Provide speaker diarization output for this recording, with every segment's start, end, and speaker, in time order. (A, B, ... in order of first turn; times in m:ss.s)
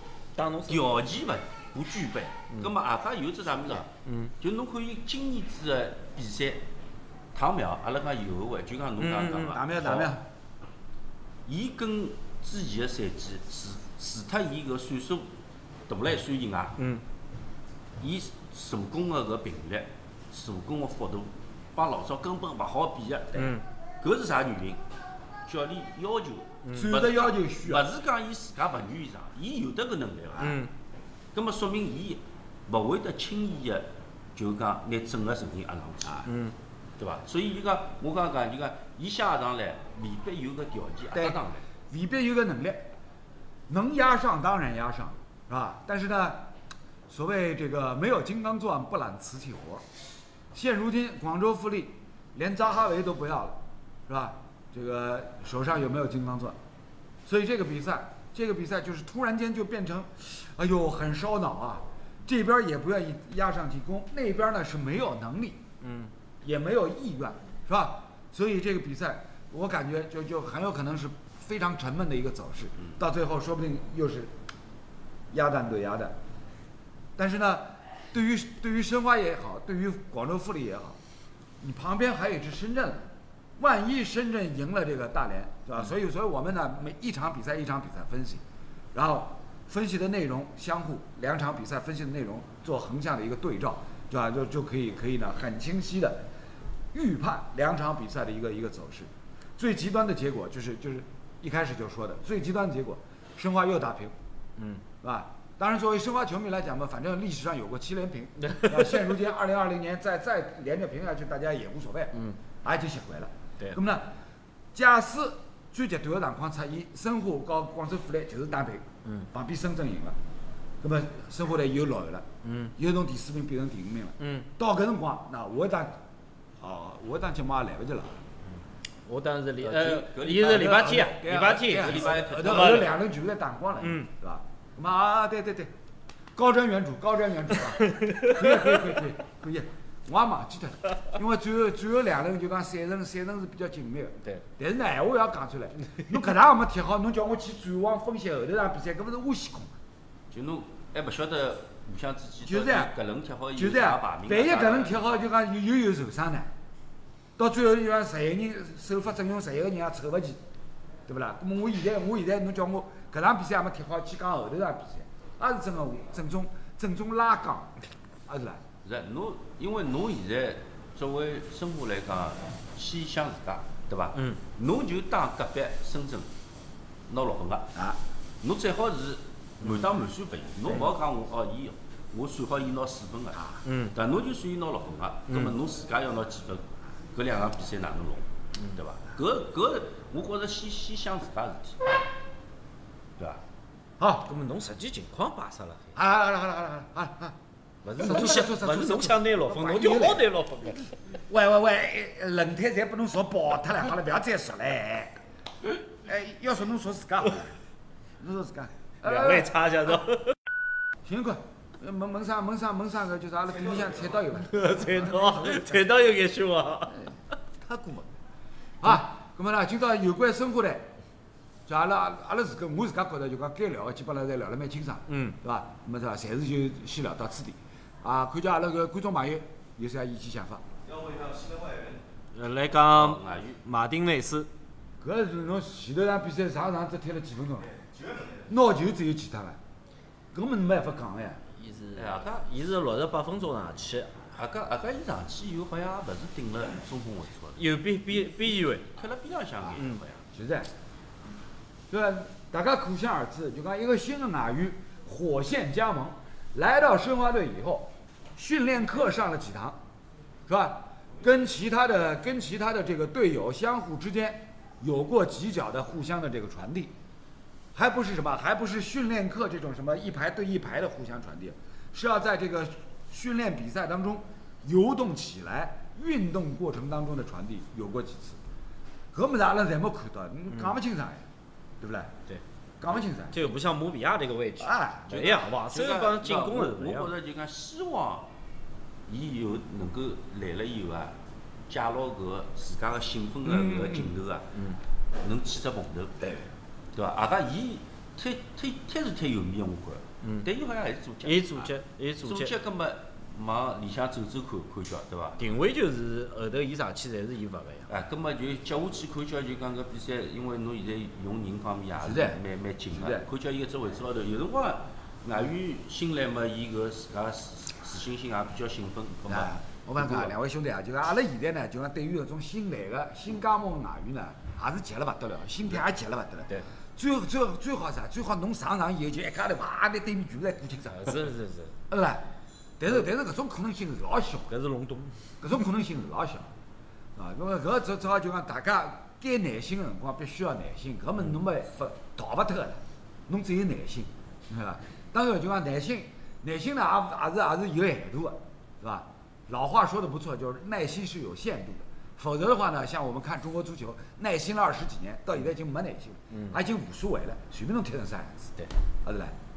0:00.4-0:00.9 A
0:00.7-0:06.7 B
0:04.0-0:04.3 A
0:07.3-0:10.1 B
0:09.0-0:09.6 A
0:09.5-0:10.2 C
0:11.4-0:15.3 B
0:15.9-0:16.8 B
0:16.8-0:17.0 A
0:18.0-0:24.8 B
0:23.3-0:23.6 A
0:25.4-0:30.6 B
0:26.6-0:26.9 A
0:26.7-0:27.9 C
0:30.4-0:30.7 A
0:31.3-0:36.2 B
0:36.2-0:36.5 A
0:37.0-0:41.6 B
0:41.1-0:42.9 C
0:43.7-0:46.5 C
0:47.1-0:49.8 C
0:50.5-0:56.6 C
0:57.2-1:05.6 C
1:05.8-1:06.1 A
1:06.4-1:14.3 C
1:15.3-1:16.2 C
1:17.2-1:21.0 C
1:21.6-1:28.4 C
1:28.9-1:36.2 C
1:36.9-1:44.1 C
1:44.6-1:44.8 A
1:45.0-1:54.1 C
1:48.4-1:49.0 A
1:54.7-2:00.2 C
2:00.8-2:02.2 C
2:02.4-2:02.7 A
2:02.8-2:06.0 C
2:04.2-2:04.5 A
2:06.6-2:08.2 C
2:09.1-2:12.9 A
2:09.6-2:10.9 B
2:10.4-2:15.7 C
2:11.6-2:12.9 B
2:13.8-2:14.1 A
2:16.4-2:29.8 C
2:17.8-2:19.0 A
2:30.3-2:35.2 B
2:32.4-2:32.9 C
2:33.6-2:36.5 C
2:37.4-2:40.4 C
2:41.1-2:47.7 C
2:48.3-2:48.6 C
2:48.8-2:56.3 B
2:57.1-2:57.7 B
2:58.4-3:11.8 B
3:03.6-3:03.9 A
3:05.3-3:05.5 A
3:14.0-3:14.3 C
3:14.2-3:15.9 A
3:15.9-3:17.3 C
3:17.8-3:20.8 A
3:18.0-3:20.2 C
3:21.3-3:25.2 C
3:26.0-3:27.5 C
3:28.2-3:29.5 C
3:29.0-3:30.4 A
3:31.0-3:35.8 C
3:34.4-3:37.0 A
3:37.7-3:38.0 C
3:38.8-3:40.9 C
3:41.7-3:50.6 C
3:45.1-3:45.4 A
3:52.3-3:54.5 A
3:52.9-3:53.6 B
3:55.0-3:57.7 C
3:58.3-3:59.6 C
4:00.3-4:01.4 C
4:01.6-4:04.1 A
4:01.9-4:02.4 B
4:04.3-4:07.6 B
4:07.6-4:08.8 A
4:08.9-4:10.2 B
4:10.3-4:10.7 C
4:11.9-4:19.8 C
4:20.5-4:26.9 C
4:27.7-4:38.4 C
4:39.1-4:41.2 C
4:41.8-4:42.1 C
4:42.8-4:43.4 C
4:43.3-4:47.1 A
4:44.6-4:45.4 C
4:45.7-4:48.3 B
4:49.1-4:51.2 B
4:51.7-4:54.5 B
4:53.4-4:54.1 C
4:55.2-4:56.2 B
4:56.2-4:56.5 C
4:56.9-5:05.4 B
5:01.2-5:02.5 A
5:05.4-5:07.9 A
5:07.9-5:20.3 B
5:12.0-5:12.4 C
5:13.0-5:13.3 C
5:19.3-5:31.3 C
5:31.0-5:31.7 A
5:31.9-5:32.2 C
5:32.8-5:34.5 C
5:34.5-5:35.2 A
5:35.4-5:36.5 C
5:37.2-5:58.5 C
5:59.0-5:59.3 C